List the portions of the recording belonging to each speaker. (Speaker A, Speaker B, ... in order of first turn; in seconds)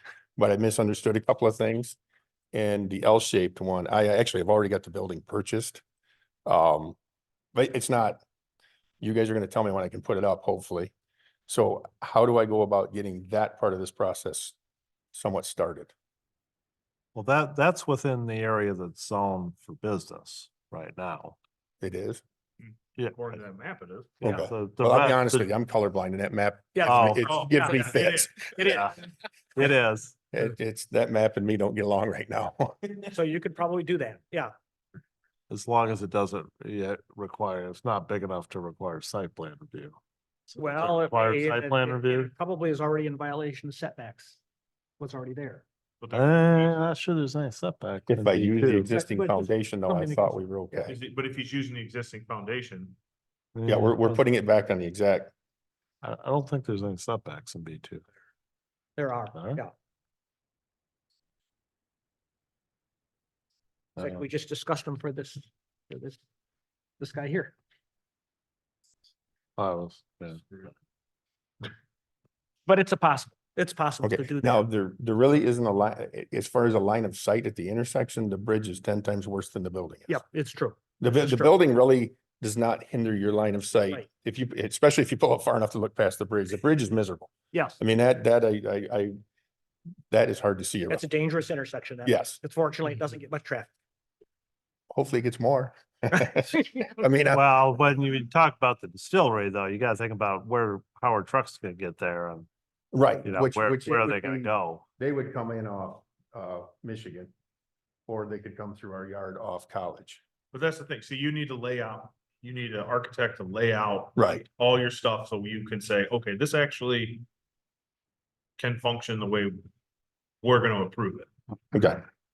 Speaker A: 0.4-2.0, 2.5-5.8, 6.5-7.0, 7.5-8.2, 9.0-10.9, 11.5-14.6, 15.1-15.9, 21.8-22.2, 24.2-28.9, 30.3-33.1, 48.1-51.0, 53.6-55.3, 74.0-80.2, 81.0-89.1, 90.1-91.0, 92.0-92.4, 94.9-97.4, 102.9-107.3, 108.1-110.2, 114.2-114.4, 121.7-122.0
Speaker B: 17.1-21.4, 24.2-25.5, 26.8-27.3, 29.6-30.2, 35.5-40.0, 40.5-42.3, 46.1-48.9, 53.5-54.2, 56.0-58.0, 59.3-59.6, 64.0-64.2, 69.6-70.7, 97.3-102.5, 103.2-104.8
Speaker C: 22.6-24.2, 27.3-28.4, 46.0-46.7, 50.9-53.0, 110.5-117.2, 118.6-119.6, 120.4-121.3
Speaker D: 26.7-28.9, 33.1-34.5, 40.5-44.4, 45.0-45.6, 48.9-50.8, 59.0-59.7, 64.0-66.2, 67.0-67.5, 72.7-74.6, 80.1-81.5, 87.5-87.8, 90.9-93.7, 96.5-96.9